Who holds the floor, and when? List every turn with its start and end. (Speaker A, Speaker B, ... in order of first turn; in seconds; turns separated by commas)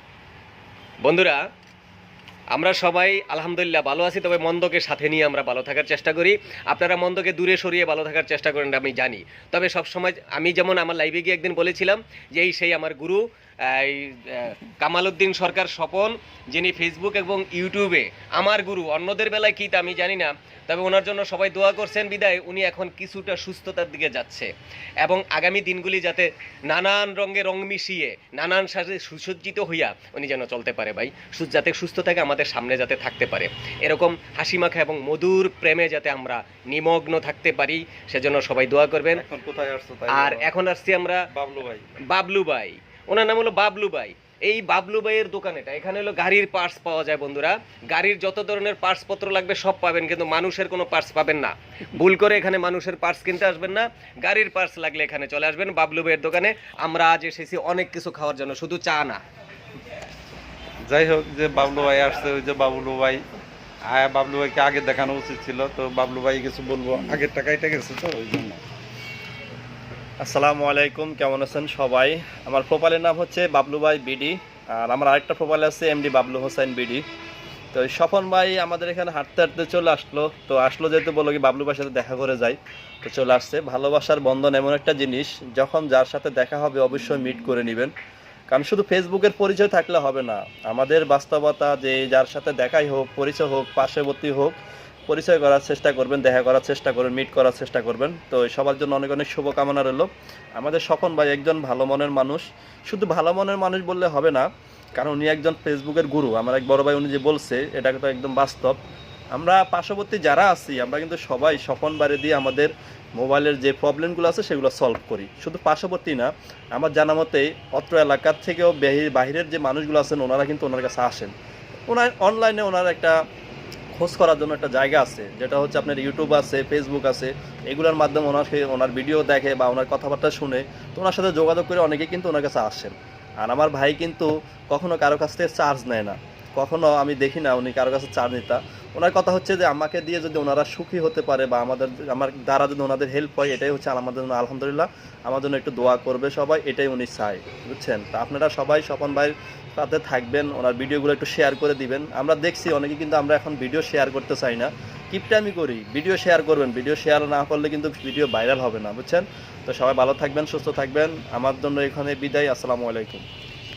Speaker A: 1.0-1.4, Speaker A: 2.5-24.5, Speaker A: 25.0-39.2, Speaker B: 39.1-40.5, Speaker A: 40.1-41.2, Speaker B: 41.3-41.9, Speaker A: 42.1-59.2, Speaker B: 60.9-63.2, Speaker B: 63.9-68.6, Speaker C: 70.2-77.0, Speaker C: 77.7-87.9, Speaker C: 88.5-94.5, Speaker C: 95.1-108.8, Speaker C: 109.3-121.3, Speaker C: 121.9-123.1, Speaker C: 124.0-163.2